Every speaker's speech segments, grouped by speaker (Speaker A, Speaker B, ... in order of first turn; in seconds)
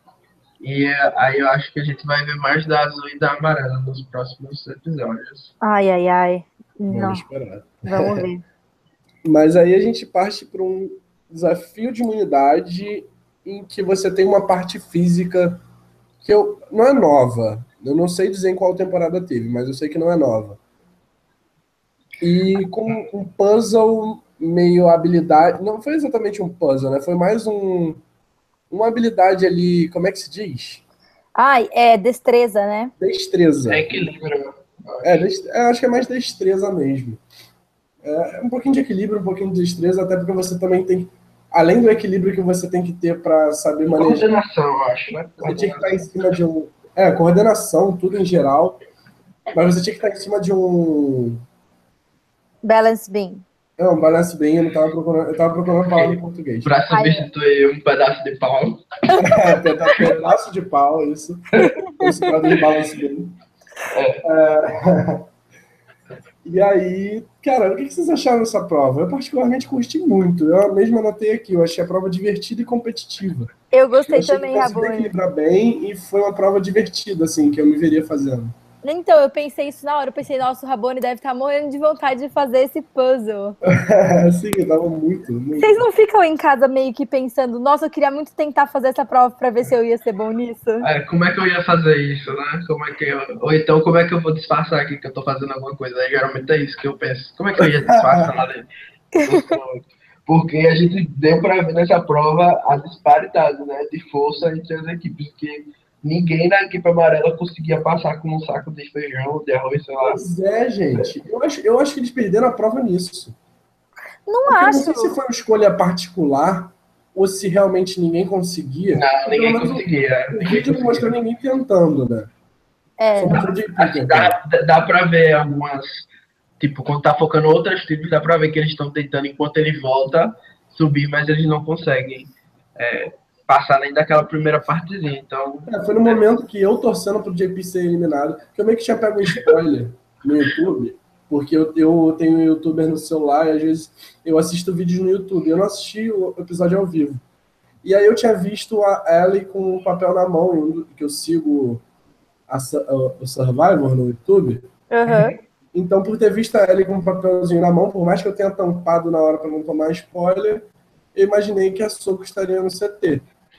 Speaker A: 0.6-5.5, 33.7-35.2, 43.9-46.0, 55.9-58.8, 63.9-64.3, 90.8-98.7, 99.2-110.2, 118.9-121.1, 123.8-126.1, 126.6-136.2, 155.1-155.4
Speaker B: 5.6-7.3, 7.8-8.4, 31.4-32.9, 52.6-53.5, 56.9-57.3, 59.1-60.0, 61.6-62.3, 73.7-75.1, 78.8-83.6, 85.6-90.9, 99.1-99.5, 114.3-115.1, 123.0-123.5, 154.9-155.3
Speaker C: 6.9-8.3, 9.2-15.6, 16.2-20.6, 22.2-28.0, 28.7-30.8, 33.0-34.0, 35.0-37.2, 38.0-44.3, 45.4-48.8, 49.5-51.4, 53.8-56.7, 59.2-63.4, 64.2-65.3, 66.4-73.5, 74.1-78.5, 83.7-85.8, 97.6-98.3, 110.0-113.4, 114.5-122.3, 123.2-124.3, 135.7-147.2, 147.8-151.8, 152.5-154.7, 155.7-163.3